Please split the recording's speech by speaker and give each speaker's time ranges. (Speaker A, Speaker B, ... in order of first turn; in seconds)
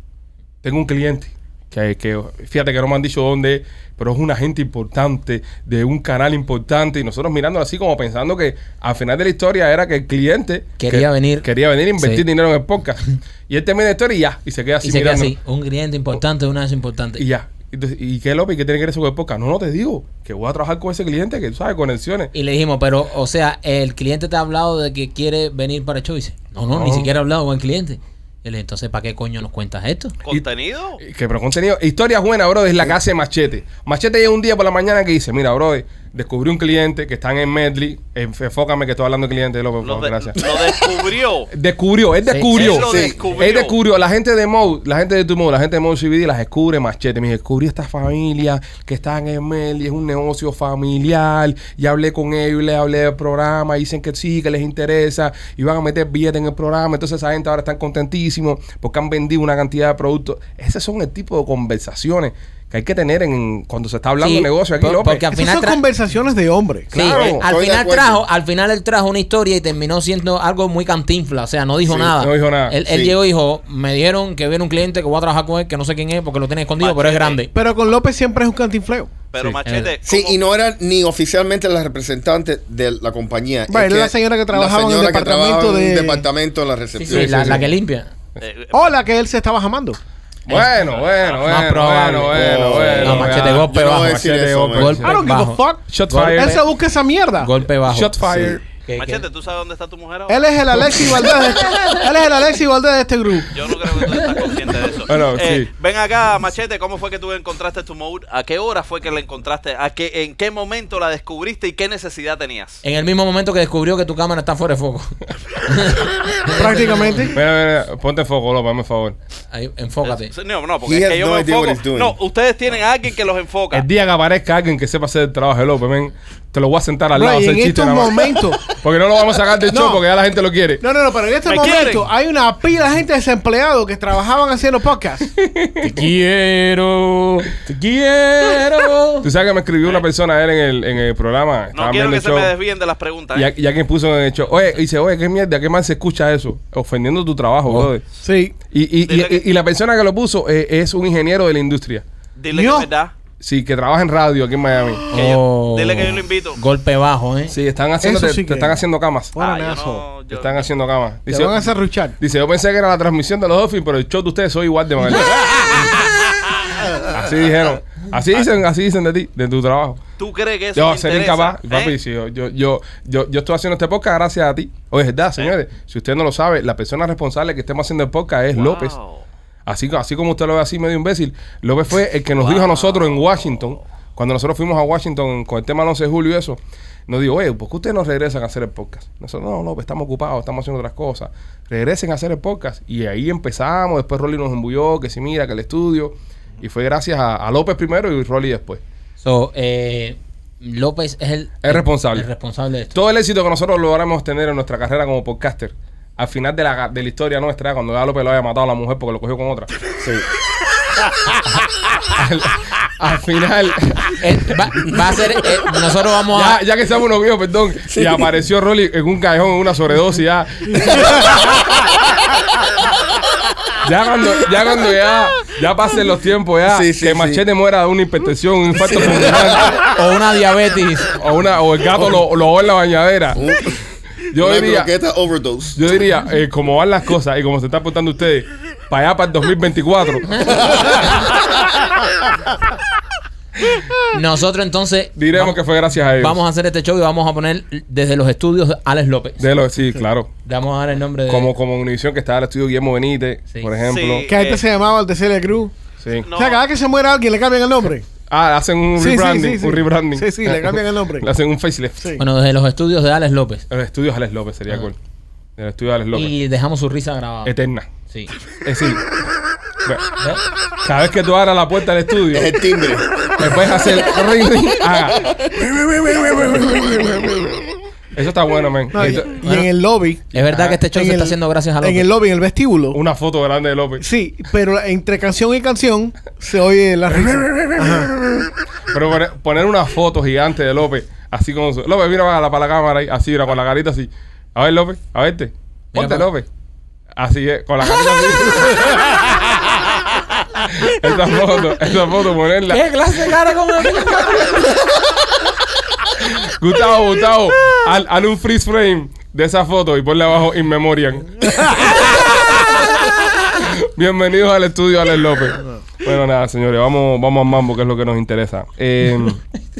Speaker A: 0.6-15.3, 17.2-22.3, 26.7-27.1, 31.0-40.5, 41.5-65.3, 66.9-67.4, 72.2-72.8, 87.1-87.7, 90.5-95.2, 95.9-96.6, 97.9-98.6, 105.1-105.7, 117.3-119.2, 123.7-130.8, 135.3-136.1, 139.2-142.5, 143.3-148.1, 148.7-152.0, 153.4-155.2, 157.5-159.3, 160.3-161.6, 162.2-165.9, 167.1-170.0, 170.8-179.0, 179.7-198.8, 201.6-202.3, 202.9-209.7, 212.2-214.2, 216.3-221.7, 223.8-229.8, 231.1-233.4, 234.3-234.9, 235.8-241.1, 245.2-246.4, 249.4-250.3, 251.3-254.3, 256.0-256.3, 258.3-262.1, 263.7-265.0, 265.6-266.3, 267.4-267.9, 268.6-269.1, 270.8-272.5, 273.4-277.6, 278.1-279.5, 280.4-280.8, 282.9-284.0, 287.1-288.1, 288.9-296.5, 297.2-299.8, 300.6-302.8, 303.9-304.6, 306.1-313.0, 313.5-319.4
Speaker B: 10.8-12.2, 14.8-17.2, 22.3-30.1, 42.2-42.6, 64.2-65.8, 66.9-77.5, 79.7-79.9, 87.0-88.1, 91.5-94.2, 94.7-96.6, 97.4-98.2, 98.8-99.2, 112.8-117.4, 119.5-120.3, 135.8-139.3, 147.7-147.9, 155.1-157.6, 199.2-203.0, 214.2-216.6, 229.8-231.2, 244.1-245.6, 246.2-249.5, 250.5-251.5, 262.2-263.6, 266.1-267.5, 279.0-279.7, 280.3-282.1, 295.9-296.3, 302.7-304.7
Speaker C: 30.3-31.0, 39.8-41.5, 42.5-43.8, 76.8-77.4, 79.3-80.4, 88.4-88.9, 90.9-91.5, 99.0-100.5, 103.5-112.8, 120.1-123.9, 131.4-132.1, 141.7-143.5, 149.1-149.4, 152.4-153.1, 155.1-156.6, 159.4-160.7, 170.2-172.0, 178.6-179.3, 182.3-183.8, 253.8-254.7, 256.2-256.6
Speaker D: 40.4-40.7, 42.7-43.2, 67.0-68.2, 71.9-72.2, 72.8-73.2, 80.0-87.7, 92.3-95.0, 98.2-98.6, 120.8-122.2, 210.0-210.3, 217.9-218.3, 220.8-221.5, 226.7-227.4, 233.4-233.8, 234.3-235.8, 272.3-273.3, 275.2-275.6
Speaker E: 65.3-66.9, 77.5-79.1, 83.7-86.3, 88.7-90.0, 95.0-97.5, 100.3-104.2, 116.5-117.4, 127.1-128.7, 129.7-130.0, 130.8-135.3, 148.2-148.6, 152.5-152.9, 158.0-160.2, 161.3-162.2, 254.3-255.7, 256.3-258.1, 259.0-261.3, 278.9-280.3, 280.9-283.0, 284.0-288.1